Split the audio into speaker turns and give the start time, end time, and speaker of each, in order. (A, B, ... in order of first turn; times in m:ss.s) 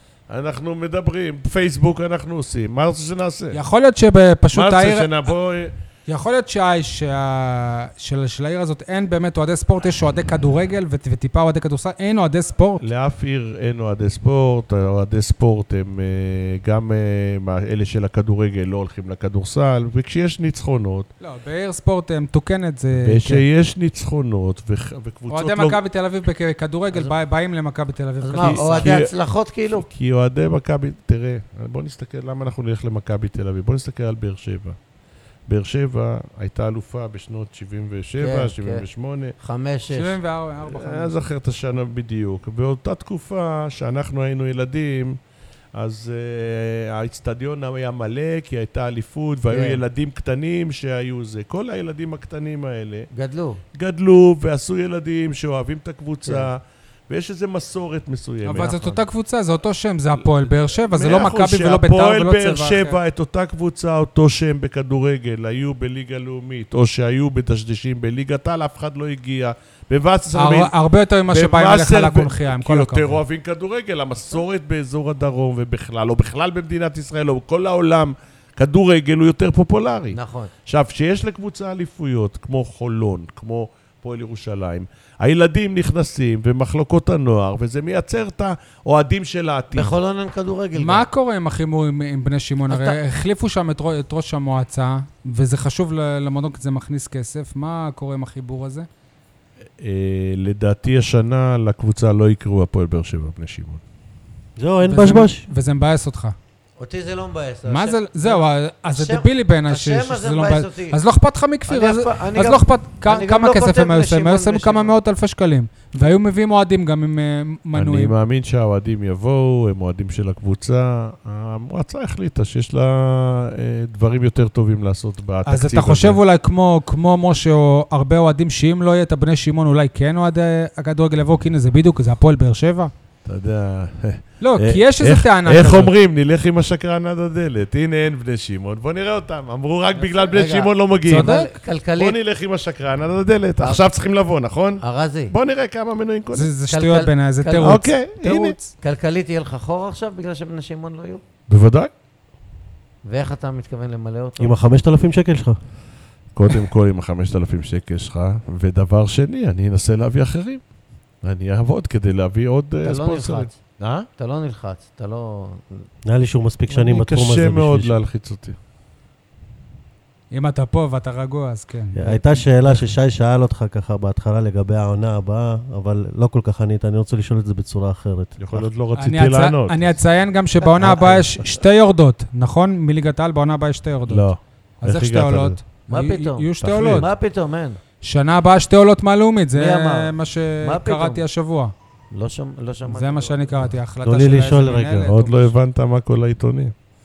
0:00.3-0:03.6 A
0:03.5-0:05.2 B
0:04.5-0:05.7 A
0:06.1-0:12.8 B
0:12.8-0:21.1 A
0:21.2-0:23.4 B
0:23.0-0:25.8 A
0:25.3-0:29.0 B
0:28.2-0:29.8 C
0:28.4-0:29.1 A
0:29.7-0:34.8 A
0:35.5-0:39.3 A
0:38.2-0:38.8 C
0:39.4-0:40.2 C
0:39.9-0:41.2 B
0:40.6-0:45.2 A
0:45.7-0:53.1 A
0:49.5-0:49.8 C
0:53.1-0:53.6 C
0:53.7-0:59.0 A
0:58.4-1:03.0 B
1:00.2-1:10.7 A
1:10.3-1:13.2 B
1:11.3-1:29.9 A
1:20.1-1:20.5 C
1:29.7-1:31.0 C
1:30.8-1:38.9 B
1:32.7-1:33.0 C
1:39.8-1:43.8 A
1:44.6-1:45.4 D
1:44.8-1:46.4 B
1:46.8-1:51.0 C
1:47.7-1:58.1 B
1:51.7-1:54.9 C
1:57.7-2:06.2 A
2:05.4-2:12.9 B
2:13.2-2:21.3 A
2:14.4-2:15.9 B
2:20.0-2:22.2 C
2:21.0-2:21.5 B
2:22.0-2:26.5 A
2:24.8-2:25.3 C
2:26.3-2:28.7 B
2:26.7-2:27.8 C
2:27.6-2:28.6 A
2:28.8-2:31.2 C
2:31.5-2:31.9 A
2:33.0-2:34.5 C
2:34.4-2:35.6 D
2:36.3-2:40.6 A
2:41.2-2:44.1 A
2:42.8-2:43.6 C
2:44.2-2:45.9 C
2:46.0-2:48.0 D
2:46.7-2:48.6 A
2:50.3-2:52.4 B
2:51.9-2:58.7 D
2:58.4-2:59.9 A
2:58.9-3:04.3 B
3:04.1-3:05.6 A
3:04.8-3:07.1 B
3:05.9-3:07.8 C
3:06.6-3:07.1 A
3:08.0-3:11.7 B
3:09.5-3:11.2 C
3:12.1-3:13.7 C
3:12.9-3:15.5 B
3:14.0-3:15.1 D
3:15.0-3:16.7 A